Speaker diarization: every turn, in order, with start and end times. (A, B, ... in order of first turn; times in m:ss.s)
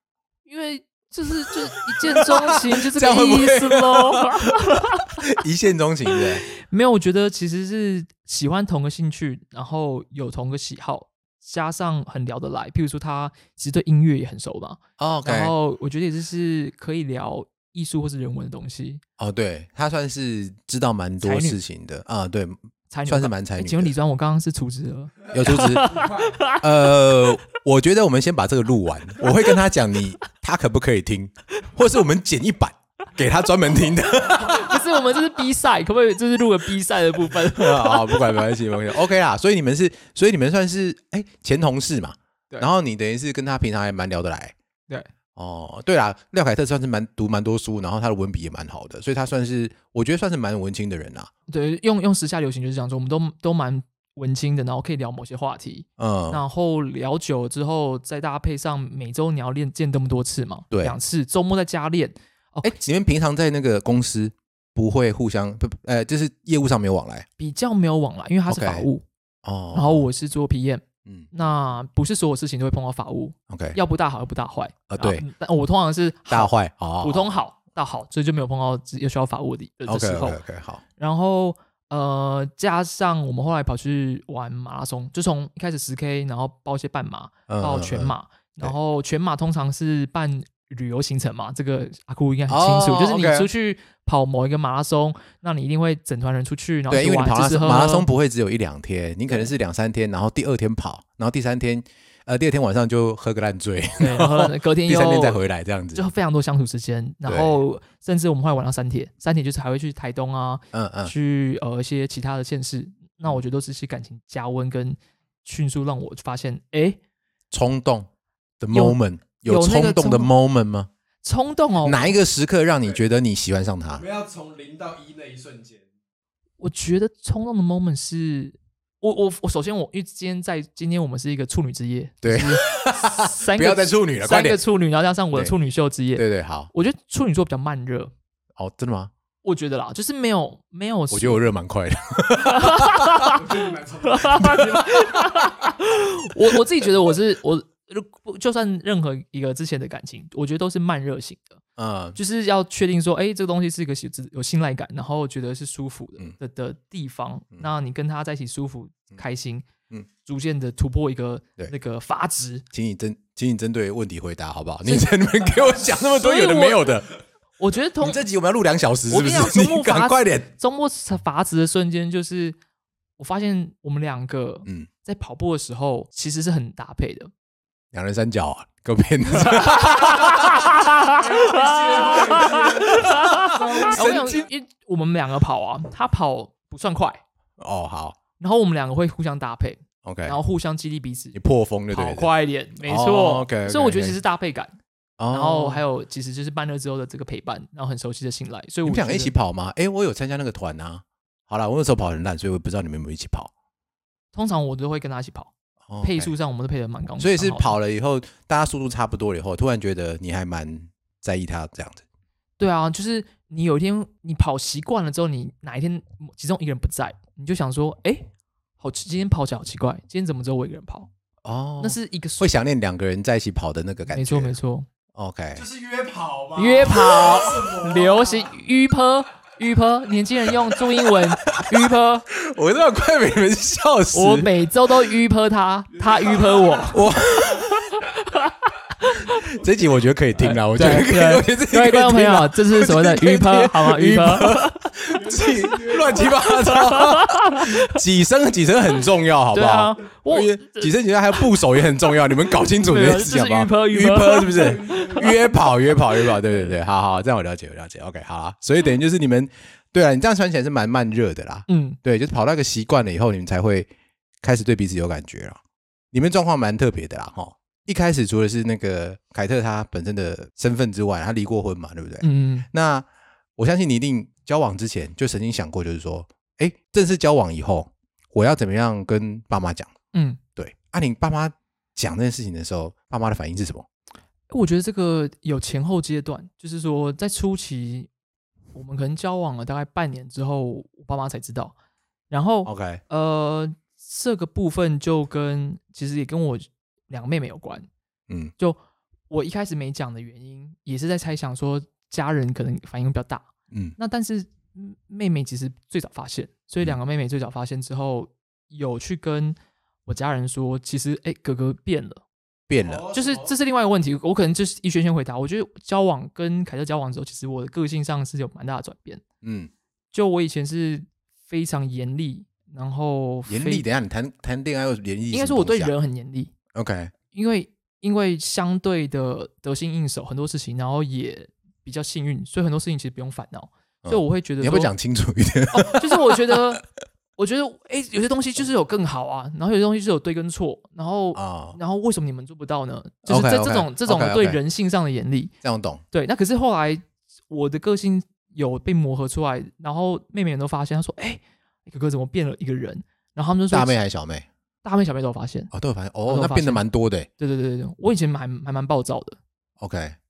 0:00.5-0:05.3 A
0:02.0-0:06.4 B
0:06.5-0:19.0 A
0:15.0-0:15.5 B
0:19.2-0:22.6 B
0:21.2-0:21.6 A
0:22.9-0:26.6 A
0:23.1-0:23.9 B
0:25.3-0:26.5 C
0:25.3-0:25.9 B
0:26.6-0:34.8 B
0:34.4-0:38.4 A
0:37.4-0:44.6 B
0:45.4-0:51.3 B
0:51.5-1:02.8 A
0:56.0-0:56.4 B
1:02.6-1:07.3 B
1:07.4-1:09.0 A
1:08.5-1:08.9 B
1:09.4-1:10.1 B
1:09.7-1:20.4 A
1:13.5-1:13.8 B
1:14.9-1:15.2 B
1:16.3-1:17.3 B
1:19.9-1:20.8 B
1:21.0-1:38.1 A
1:27.5-1:28.7 B
1:32.5-1:33.5 B
1:36.9-1:46.1 B
1:44.0-1:45.4 A
1:46.0-1:57.0 A
1:47.3-1:47.6 B
1:50.7-1:51.1 B
1:57.5-1:58.1 B
1:58.6-2:00.9 B
1:58.7-2:00.3 A
2:01.2-2:02.1 A
2:01.8-2:04.0 B
2:03.9-2:05.8 C
2:06.6-2:18.1 A
2:12.2-2:14.6 B
2:16.2-2:16.7 B
2:18.6-2:19.1 B
2:19.4-2:21.4 A
2:21.1-2:23.3 B
2:22.4-2:23.4 A
2:23.2-2:25.5 C
2:24.1-2:31.6 A
2:31.8-2:32.2 B
2:32.2-2:39.7 A
2:40.2-2:42.6 A
2:42.7-2:47.1 B
2:44.9-2:45.1 A
2:45.7-2:46.9 A
2:47.6-2:48.2 A
2:48.0-2:50.5 B
2:49.1-2:52.6 A
2:53.2-2:57.3 A
2:57.9-3:00.6 B
2:59.4-3:07.2 A
3:01.1-3:04.0 C
3:02.9-3:04.5 B
3:07.6-3:08.2 B
3:08.4-3:11.4 A
3:10.0-3:10.4 B
3:11.3-3:12.3 B
3:11.9-3:14.8 A
3:12.8-3:14.2 B
3:15.2-3:15.8 B
3:15.3-3:19.3 A
3:18.9-3:23.5 B
3:24.3-3:27.8 A
3:25.9-3:26.3 B
3:27.2-3:32.0 B
3:32.6-3:41.1 A
3:41.4-3:44.6 B
3:41.8-3:42.5 A
3:44.1-3:44.9 A
3:45.2-3:45.6 B
3:45.5-3:48.6 C
3:46.6-3:52.3 A
3:51.6-3:54.5 B
3:54.1-3:57.0 A
3:55.9-3:57.0 C
3:56.9-3:58.0 B
3:59.0-3:59.5 A
3:59.5-4:23.9 B
4:00.4-4:04.8 A
4:05.1-4:06.6 C
4:06.5-4:07.9 A
4:09.5-4:11.4 A
4:12.8-4:15.3 A
4:14.4-4:15.8 C
4:16.2-4:16.7 A
4:21.7-4:22.0 A
4:24.4-4:25.6 B
4:26.1-4:33.1 B
4:32.2-4:32.7 A
4:33.6-4:39.9 B
4:40.1-4:40.4 A
4:40.6-4:43.9 B
4:44.5-4:48.1 A
4:48.7-4:51.8 A
4:52.3-4:57.9 A
4:52.6-4:53.0 B
4:59.3-5:09.6 A
5:10.1-5:12.2 A
5:12.7-5:13.1 B
5:12.8-5:13.5 C
5:13.1-5:19.2 A
5:19.4-5:19.7 B
5:20.1-5:23.8 A
5:23.5-5:25.9 B
5:25.3-5:26.5 A
5:26.7-5:27.1 B
5:27.3-5:34.9 A
5:34.0-5:36.6 B
5:35.7-5:36.8 A
5:37.4-5:45.5 A
5:41.4-5:41.8 B
5:43.3-5:44.6 B
5:45.6-5:46.0 B
5:46.1-5:54.0 A
5:53.7-5:54.5 B
5:54.8-5:55.7 A
5:55.7-5:57.3 B
5:56.3-5:56.8 A
5:57.4-5:59.4 A
5:59.8-6:00.2 B